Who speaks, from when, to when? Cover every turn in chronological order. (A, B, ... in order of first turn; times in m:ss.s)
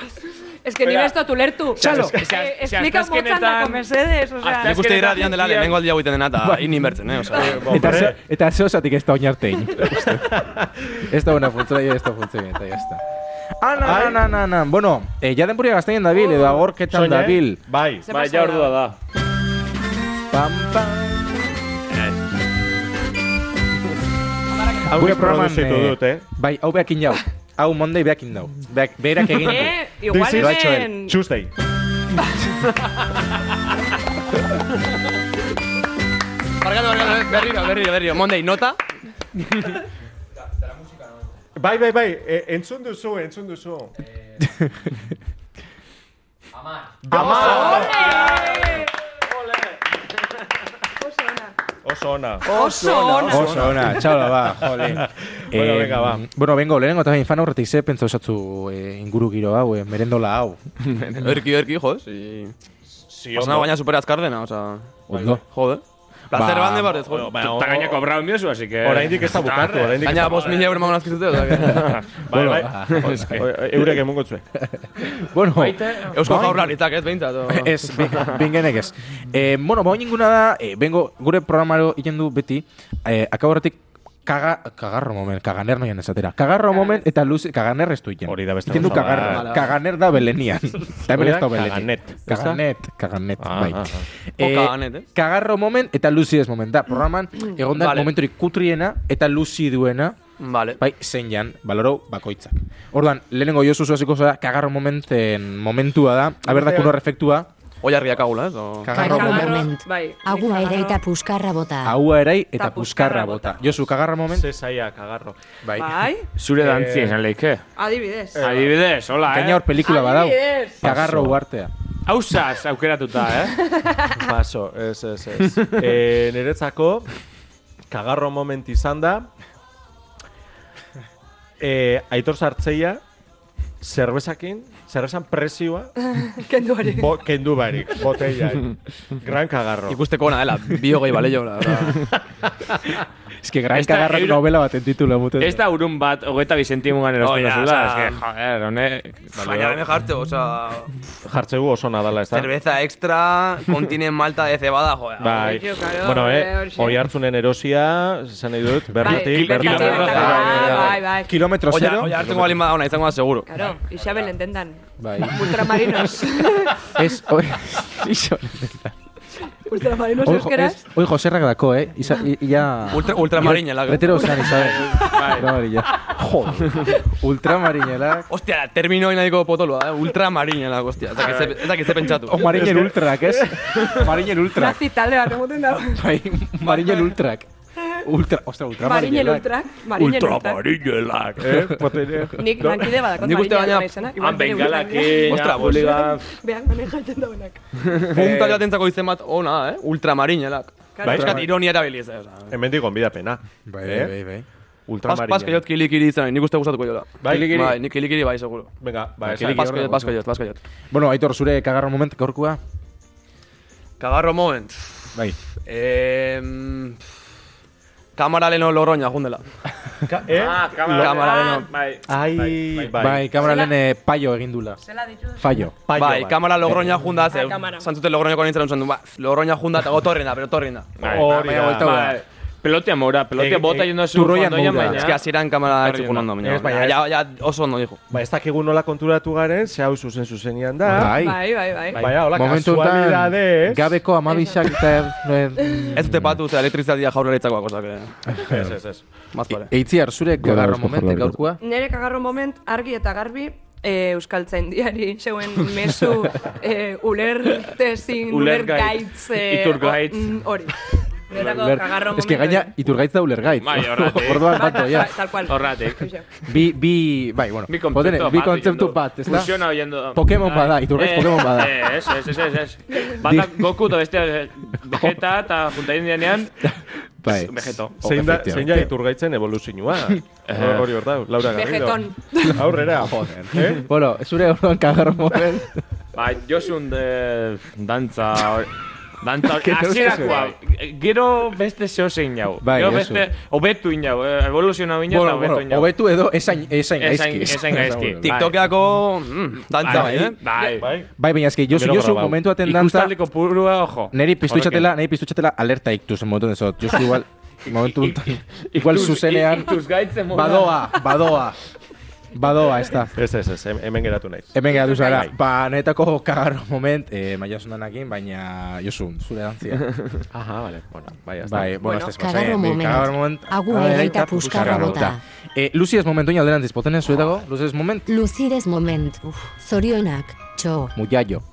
0:00.6-0:04.8 A
0:00.8-0:01.1 B
0:01.8-0:02.1 C
0:01.9-0:03.8 B
0:01.9-0:02.2 D
0:04.4-0:05.8 B
0:04.6-0:07.8 E
0:06.4-0:13.0 C
0:07.3-0:08.0 B
0:07.4-0:08.2 D
0:10.0-0:10.7 D
0:13.6-0:17.6 C
0:13.8-0:14.2 D
0:16.9-0:18.1 D
0:18.1-0:18.8 A
0:18.1-0:19.0 B
0:20.3-0:21.6 C
0:21.9-0:22.2 B
0:24.8-0:26.2 D
0:24.9-0:30.9 C
0:29.3-0:31.2 A
0:30.1-0:31.5 D
0:36.6-0:38.8 E
0:39.5-0:39.8 E
0:41.6-0:43.9 D
0:44.4-0:44.9 C
0:47.0-0:48.8 D
0:47.1-0:48.4 B
0:47.2-0:48.9 A
0:51.0-0:51.5 A
0:51.8-0:52.5 D
0:52.4-0:53.6 A
0:52.4-0:53.6 E
0:53.2-0:56.2 D
0:53.3-1:00.6 C
1:00.8-1:01.4 B
1:01.2-1:02.5 E
1:03.1-1:03.7 D
1:03.3-1:07.4 E
1:05.1-1:05.4 C
1:06.3-1:07.0 C
1:07.0-1:08.0 D
1:07.3-1:10.7 B
1:08.8-1:10.7 D
1:10.0-1:12.0 E
1:11.5-1:13.4 C
1:11.6-1:12.1 B
1:12.3-1:14.4 D
1:12.9-1:13.5 B
1:14.6-1:16.8 C
1:15.6-1:16.4 B
1:16.0-1:18.0 E
1:17.5-1:40.2 C
1:28.2-1:29.6 D
1:28.8-1:29.7 E
1:31.1-1:32.6 D
1:33.4-1:34.0 D
1:34.4-1:35.0 E
1:37.7-1:38.1 E
1:40.4-1:40.8 E
1:40.8-1:47.5 C
1:46.5-1:46.9 D
1:47.8-1:49.0 E
1:48.8-1:49.7 C
1:48.9-1:52.0 F
1:48.9-1:51.0 A
1:51.8-1:54.5 C
1:52.5-1:53.7 A
1:54.3-1:55.4 D
1:55.6-1:56.0 C
1:55.8-1:56.3 A
1:56.4-1:57.6 B
1:56.6-1:57.2 D
1:57.8-1:58.4 A
1:58.3-1:58.8 D
1:58.4-1:59.6 B
1:59.3-2:01.7 C
1:59.8-2:00.8 A
2:00.8-2:01.4 D
2:02.0-2:03.6 B
2:03.6-2:04.3 A
2:04.1-2:07.1 D
2:07.9-2:09.3 D
2:11.6-2:13.0 D
2:13.8-2:15.9 D
2:16.1-2:17.2 A
2:16.8-2:20.0 D
2:19.9-2:22.1 E
2:23.4-2:25.6 C
2:23.7-2:24.4 B
2:25.4-2:29.7 B
2:27.2-2:28.2 E
2:29.3-2:30.9 E
2:29.5-2:29.8 D
2:31.2-2:32.5 D
2:32.3-2:35.6 E
2:35.2-2:40.5 D
2:35.2-2:37.0 A
2:39.0-2:41.0 B
2:39.0-2:41.3 A
2:39.6-2:41.0 E
2:40.0-2:42.7 C
2:41.7-2:43.5 E
2:43.5-2:47.2 A
2:45.0-2:48.9 C
2:49.5-2:50.8 A
2:50.2-2:58.3 C
2:52.9-2:54.5 E
2:54.2-2:54.8 A
2:54.4-2:55.5 B
2:58.3-3:02.6 E
3:01.1-3:01.9 B
3:02.2-3:04.8 C
3:02.4-3:04.2 D
3:04.5-3:06.1 A
3:05.9-3:09.5 C
3:08.8-3:10.6 A
3:10.0-3:11.4 E
3:11.4-3:13.0 D
3:12.4-3:17.6 A
3:13.1-3:13.9 E
3:14.2-3:16.2 B
3:15.2-3:16.2 E
3:17.8-3:22.5 E
3:18.1-3:18.6 C
3:20.9-3:21.4 A
3:21.0-3:21.6 D
3:21.1-3:21.5 C
3:22.5-3:24.1 D
3:23.7-3:24.4 C
3:24.9-3:25.6 D
3:25.0-3:28.7 E
3:27.2-3:27.7 D
3:27.3-3:27.8 C
3:28.8-3:29.9 D
3:29.2-3:30.1 C
3:29.3-3:30.6 E
3:30.9-3:32.6 C
3:34.0-3:37.0 E
3:38.2-3:39.4 E
3:40.0-3:41.3 D
3:40.3-3:43.0 B
3:41.0-3:41.7 E
3:41.2-3:41.6 A
3:42.1-3:43.3 D
3:43.0-3:44.8 C
3:43.4-3:43.8 A
3:44.8-3:45.4 A
3:45.4-3:45.8 C
3:45.9-3:46.8 D
3:45.9-3:50.9 E
3:47.2-3:47.9 A
3:51.0-3:56.3 B
3:51.0-3:51.9 D
3:51.1-3:52.2 C
3:53.4-3:53.9 D
3:54.1-3:55.1 C
3:54.8-3:58.0 E
3:56.4-3:57.1 D
3:58.1-4:01.1 D
4:00.8-4:01.5 C
4:01.0-4:02.2 A
4:02.0-4:04.0 D
4:02.1-4:06.4 C
4:04.3-4:04.8 A
4:05.6-4:05.9 A
4:05.9-4:08.2 E
4:08.4-4:08.7 C
4:08.4-4:09.0 D
4:09.3-4:09.7 E
4:09.5-4:11.6 C
4:10.4-4:11.4 D
4:11.6-4:22.7 A
4:18.3-4:20.4 B
4:21.3-4:25.2 C
4:23.6-4:24.8 B
4:24.3-4:26.2 A
4:25.4-4:26.1 B
4:26.4-4:29.6 C
4:27.7-4:36.7 B
4:30.1-4:32.0 C
4:32.9-4:33.2 A
4:33.2-4:33.8 C
4:34.8-4:35.2 C
4:36.6-4:38.9 C
4:37.3-4:37.9 B
4:38.0-4:43.9 D
4:40.4-4:41.0 B
4:41.5-4:42.6 A
4:42.5-4:45.8 C
4:46.1-4:55.9 B
4:49.6-4:50.5 C
4:52.6-4:53.2 C
4:55.1-4:58.3 C
4:57.0-4:58.7 B
4:58.2-5:00.4 E
4:59.8-5:00.9 B
4:59.9-5:00.2 C
5:00.5-5:00.9 A
5:00.8-5:01.1 D
5:01.2-5:03.2 C
5:01.7-5:02.4 D
5:02.6-5:04.9 B
5:04.1-5:11.6 C
5:07.7-5:11.2 B
5:12.3-5:13.2 C
5:13.1-5:15.3 D
5:14.5-5:19.9 C
5:20.3-5:21.8 D
5:21.4-5:28.1 C
5:21.8-5:22.1 A
5:22.1-5:25.2 F
5:24.5-5:25.1 B
5:28.1-5:30.9 F
5:30.9-5:31.4 C